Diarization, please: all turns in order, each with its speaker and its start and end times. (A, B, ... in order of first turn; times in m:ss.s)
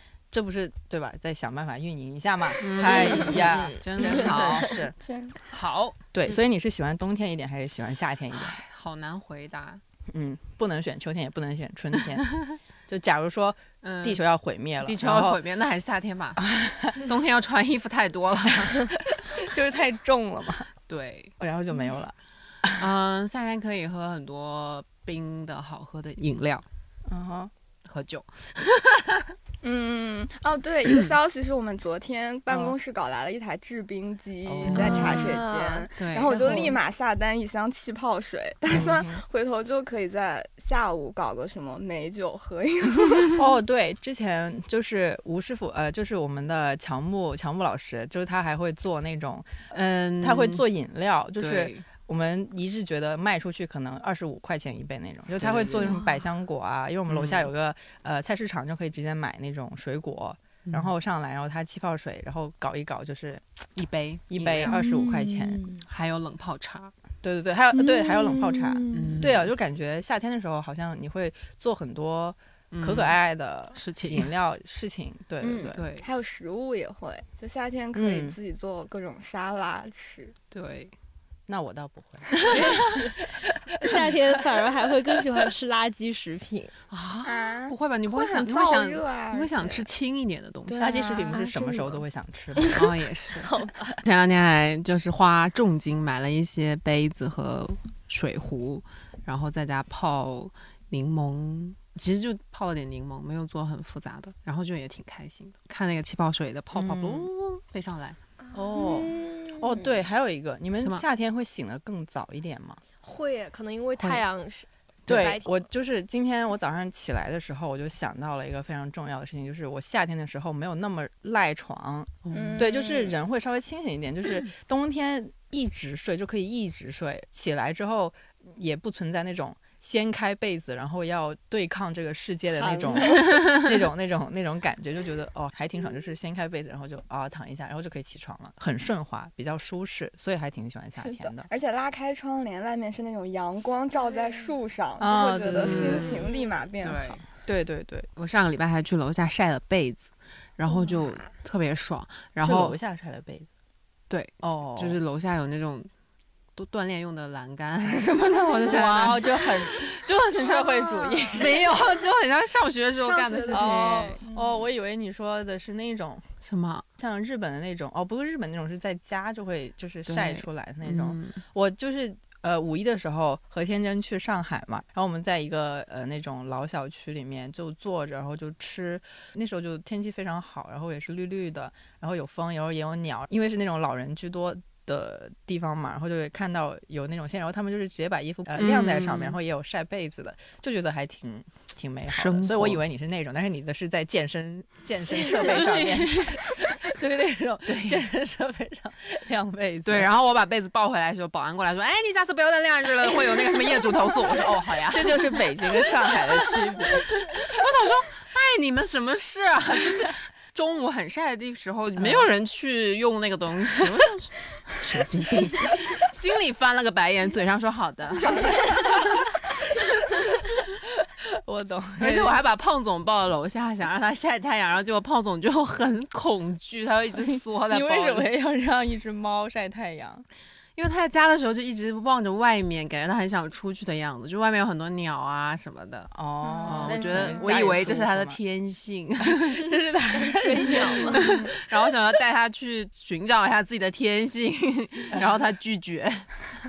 0:00.3-0:05.0 A
0:02.6-0:04.8 B
0:02.9-0:04.5 C
0:05.0-0:05.4 D
0:05.5-0:06.0 B
0:06.1-0:08.6 A
0:08.4-0:09.8 B
0:10.1-0:15.4 A
0:13.8-0:14.2 B
0:14.8-0:16.4 B
0:16.4-0:17.0 A
0:17.0-0:19.0 B
0:19.1-0:20.7 A
0:20.9-0:21.3 B
0:21.4-0:22.8 A
0:22.8-0:26.6 B
0:27.1-0:27.5 A
0:27.8-0:29.3 B
0:29.6-0:43.4 D
0:34.4-0:35.2 A
0:34.6-0:35.4 B
0:35.0-0:35.9 C
0:36.0-0:36.8 B
0:36.4-0:36.7 A
0:38.7-0:39.2 A
0:43.4-0:49.6 A
0:49.7-0:50.6 B
0:50.2-1:03.5 A
0:51.4-0:51.8 B
0:55.4-0:56.0 B
0:57.1-0:57.5 B
1:00.7-1:00.9 B
1:03.8-1:05.0 B
1:04.3-1:05.8 A
1:04.7-1:05.0 C
1:05.8-1:06.9 B
1:07.2-1:15.9 A
1:08.0-1:08.9 C
1:08.9-1:09.5 B
1:12.7-1:13.2 B
1:13.8-1:14.3 B
1:15.4-1:20.4 D
1:15.7-1:16.1 B
1:17.9-1:18.4 A
1:20.5-1:20.9 B
1:21.5-1:24.0 A
1:22.5-1:22.8 D
1:23.8-1:26.7 C
1:26.9-1:32.0 B
1:27.2-1:29.9 D
1:30.7-1:31.9 D
1:30.8-1:32.8 A
1:32.7-1:48.2 B
1:33.4-1:34.0 C
1:46.7-1:47.3 A
1:48.5-1:48.9 C
1:48.5-1:52.8 A
1:48.8-1:49.9 D
1:53.0-1:55.6 C
1:55.1-2:21.5 A
2:02.2-2:02.7 B
2:02.3-2:03.1 D
2:12.6-2:13.3 D
2:21.0-2:27.2 D
2:25.0-2:26.2 A
2:25.4-2:26.3 B
2:26.8-2:27.2 B
2:27.4-2:28.1 A
2:28.2-2:32.8 B
2:32.4-2:33.5 A
2:34.1-2:35.9 B
2:34.4-2:35.0 A
2:36.6-2:44.2 B
2:38.6-2:41.6 A
2:40.6-2:41.5 D
2:43.0-2:44.7 D
2:43.5-2:46.3 A
2:46.4-2:46.8 B
2:47.0-3:20.1 A
2:50.1-2:51.4 B
3:08.6-3:09.4 B
3:12.1-3:12.8 B
3:15.2-3:16.4 B
3:17.7-3:18.0 B
3:19.8-3:26.2 B
3:24.9-3:27.4 A
3:27.0-3:38.7 B
3:32.0-3:32.3 A
3:41.2-3:42.4 A
3:42.0-3:48.3 B
3:47.2-3:50.2 A
3:50.8-3:56.1 B
3:56.1-3:58.4 A
3:56.4-3:57.4 D
3:56.6-3:59.7 B
3:59.2-4:01.4 A
4:00.4-4:01.3 C
4:00.6-4:01.3 D
4:01.0-4:06.3 B